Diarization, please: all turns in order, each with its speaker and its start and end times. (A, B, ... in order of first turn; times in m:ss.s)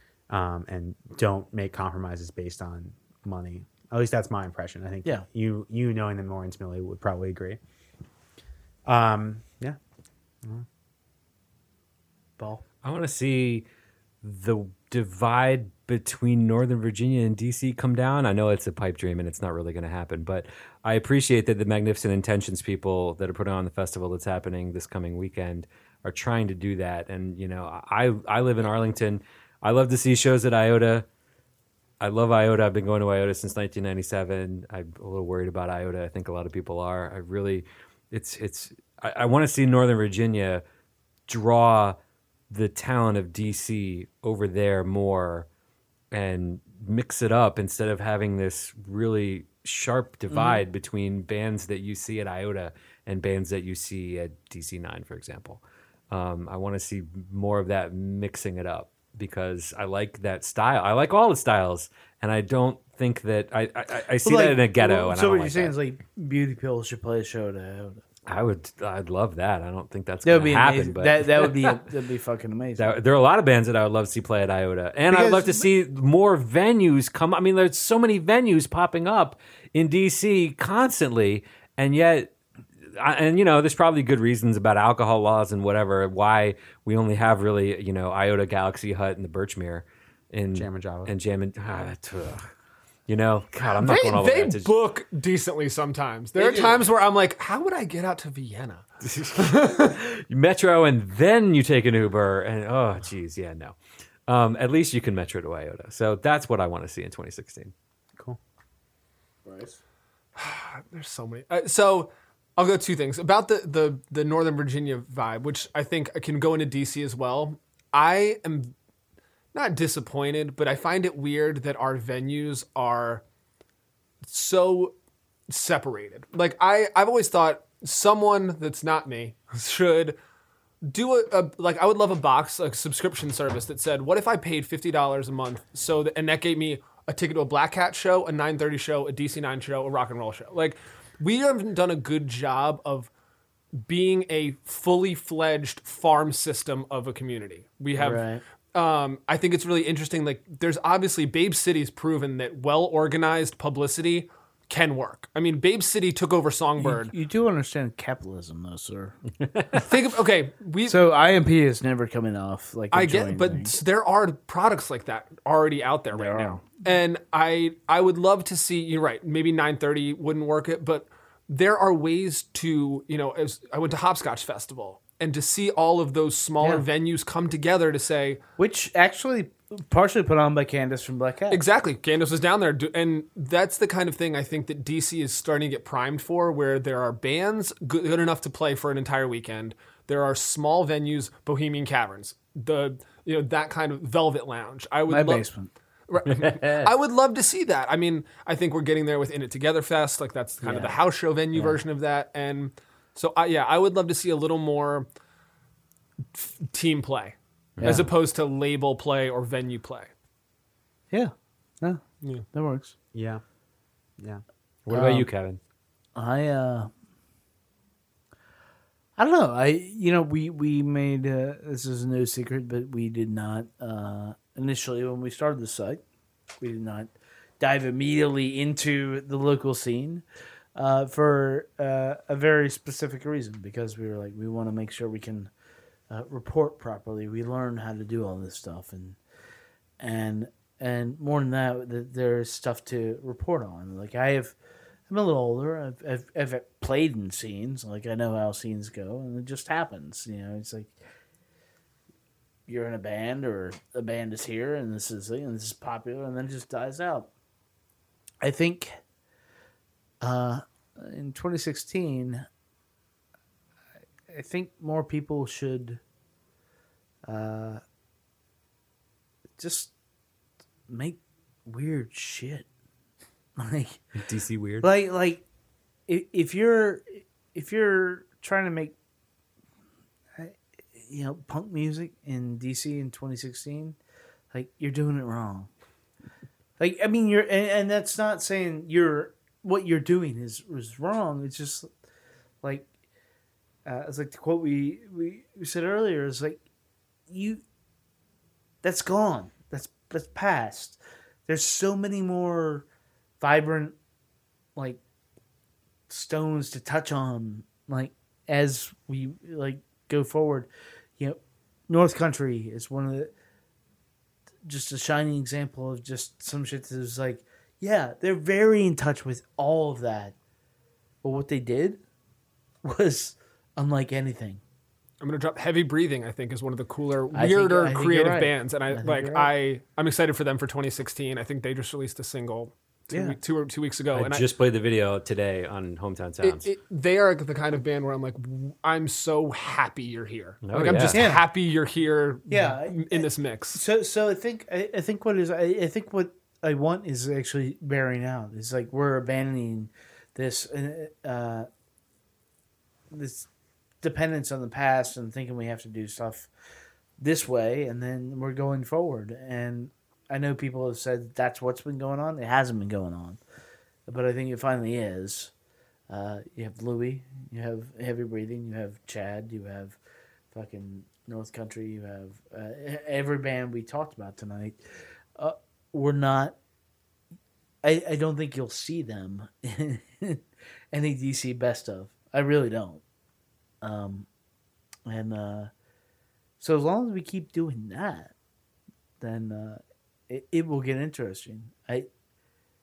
0:00.3-0:07.6 A
0:08.8-0:09.8 A
0:12.4-0:12.6 B
0:12.8-0:13.6 C
0:14.2-0:31.1 C
0:32.0-0:40.6 C
0:41.3-0:42.0 C
0:42.5-0:45.5 C
0:46.1-1:05.7 C
0:50.3-0:50.6 B
1:04.2-1:08.0 B
1:08.3-1:11.8 C
1:10.2-1:12.9 B
1:12.8-1:22.3 C
1:15.1-1:15.7 B
1:22.9-1:32.4 C
1:30.5-1:31.1 A
1:33.1-1:34.7 C
1:33.6-1:39.9 D
1:36.4-1:36.8 B
1:39.1-1:47.7 C
1:49.4-1:49.8 B
1:50.4-1:58.7 D
1:59.5-2:03.2 D
2:04.2-2:04.9 D
2:05.5-2:10.2 D
2:10.8-2:23.1 D
2:23.8-2:37.1 D
2:28.0-2:28.4 B
2:36.8-2:39.2 B
2:39.8-2:41.0 D
2:40.8-2:43.8 B
2:42.9-2:58.4 D
2:46.1-2:46.6 B
2:58.6-3:01.6 B
3:01.5-3:15.4 D
3:15.1-3:15.7 B
3:16.1-3:25.1 D
3:16.3-3:16.7 C
3:20.6-3:21.0 B
3:21.5-3:21.8 B
3:26.3-3:30.1 D
3:27.8-3:28.0 C
3:27.8-3:28.1 B
3:31.1-3:32.9 B
3:33.1-3:33.4 A
3:34.9-3:35.6 C
3:34.9-3:35.3 B
3:36.1-3:36.9 B
3:39.2-3:46.0 B
3:46.6-3:50.2 B
3:50.8-3:55.5 B
3:56.1-3:59.2 B
4:00.0-4:04.6 B
4:05.1-4:11.0 B
4:12.7-4:17.3 B
4:18.4-4:19.0 B
4:20.2-4:22.4 B
4:24.3-4:26.0 B
4:27.3-4:27.8 B
4:29.6-4:29.9 B
4:30.9-4:32.6 B
4:33.6-4:34.0 B
4:34.2-4:34.9 C
4:34.8-4:35.4 B
4:36.1-4:39.0 B
4:40.4-4:44.0 B
4:44.5-4:45.7 B
4:46.8-4:51.9 B
4:52.6-4:52.9 B
4:53.8-4:56.6 B
4:57.3-4:57.6 B
4:58.8-5:02.8 B
5:03.4-5:03.9 B
5:06.1-5:13.3 B
5:14.6-5:20.4 B
5:21.2-5:22.0 B
5:22.8-5:24.6 B
5:25.2-5:34.4 D
5:27.3-5:29.5 B
5:33.1-5:33.4 B
5:34.1-5:36.7 C
5:36.4-5:43.8 D
5:40.6-5:41.2 C
5:41.1-5:41.4 B
5:42.5-5:51.7 B
5:53.1-5:53.5 B
5:54.0-5:56.5 B
5:57.2-6:03.4 B
6:04.1-6:05.5 B
6:06.1-6:10.0 B
6:10.5-6:14.8 B
6:15.4-6:16.6 B
6:17.8-6:23.0 B
6:23.8-6:24.3 B
6:25.1-6:25.7 B
6:26.6-6:28.3 B
6:29.2-6:32.1 B